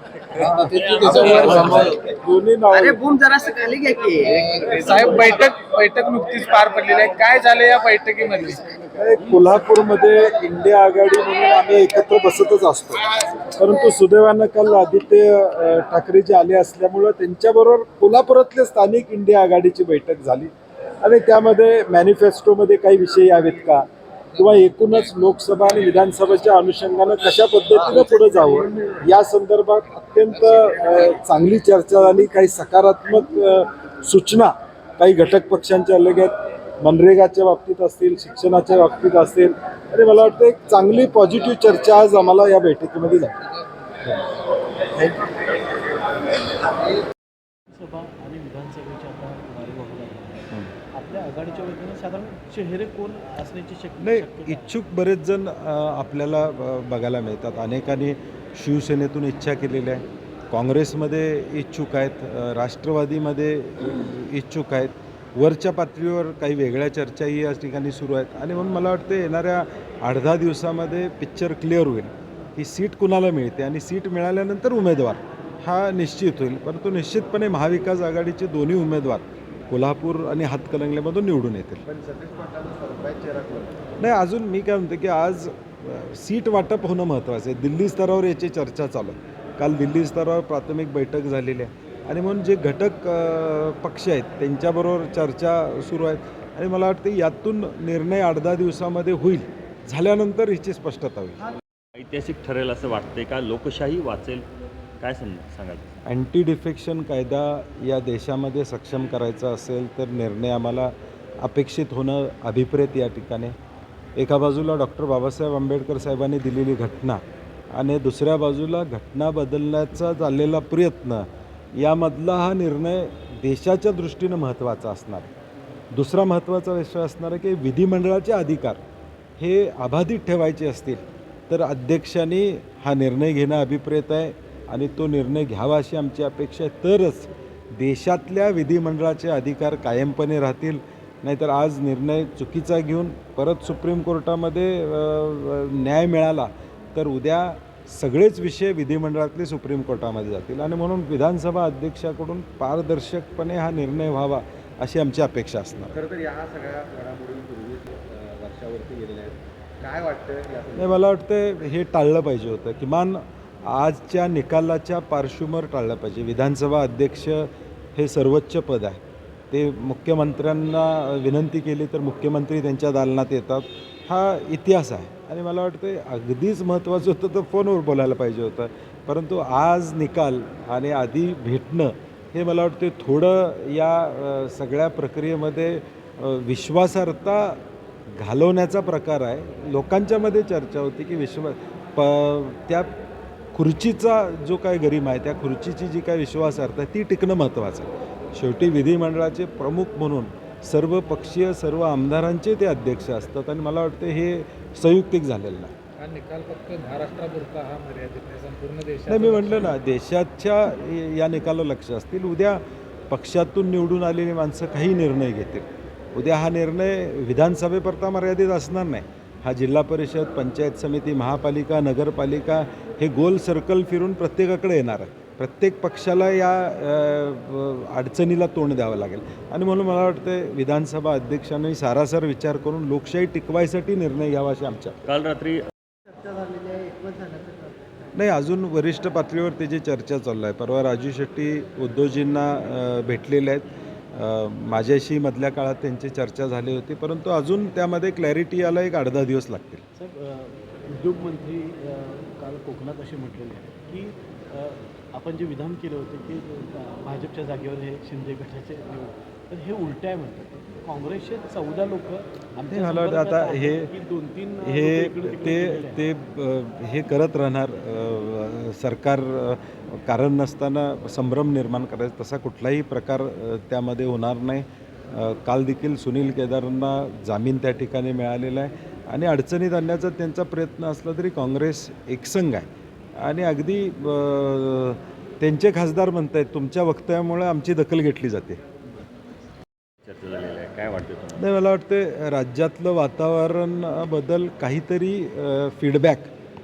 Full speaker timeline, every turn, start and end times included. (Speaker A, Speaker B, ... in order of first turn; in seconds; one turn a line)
Speaker A: 0.4-2.0
Speaker B: 1.1-1.9
Speaker C: 1.5-3.0
Speaker B: 2.7-4.5
Speaker A: 4.2-8.7
Speaker C: 8.9-43.4
Speaker C: 44.0-45.4
Speaker D: 47.7-54.7
Speaker C: 54.0-81.8
Speaker E: 81.9-83.9
Speaker C: 84.0-101.4
Speaker F: 102.0-104.5
Speaker F: 105.0-106.0
Speaker C: 106.0-113.5
Speaker C: 114.2-125.3
Speaker C: 125.9-128.8
Speaker C: 129.4-156.0
Speaker E: 155.9-161.0
Speaker C: 160.8-169.0
Speaker C: 169.5-187.6
Speaker C: 188.2-192.9
Speaker C: 193.5-205.7
Speaker A: 206.0-209.7
Speaker C: 209.1-235.0
Speaker F: 235.0-235.6
Speaker B: 236.1-237.7
Speaker C: 238.2-249.8
Speaker D: 250.0-266.0
Speaker C: 262.7-263.9
Speaker C: 264.6-282.7
Speaker C: 283.2-288.6
Speaker F: 290.1-291.4
Speaker C: 291.4-296.3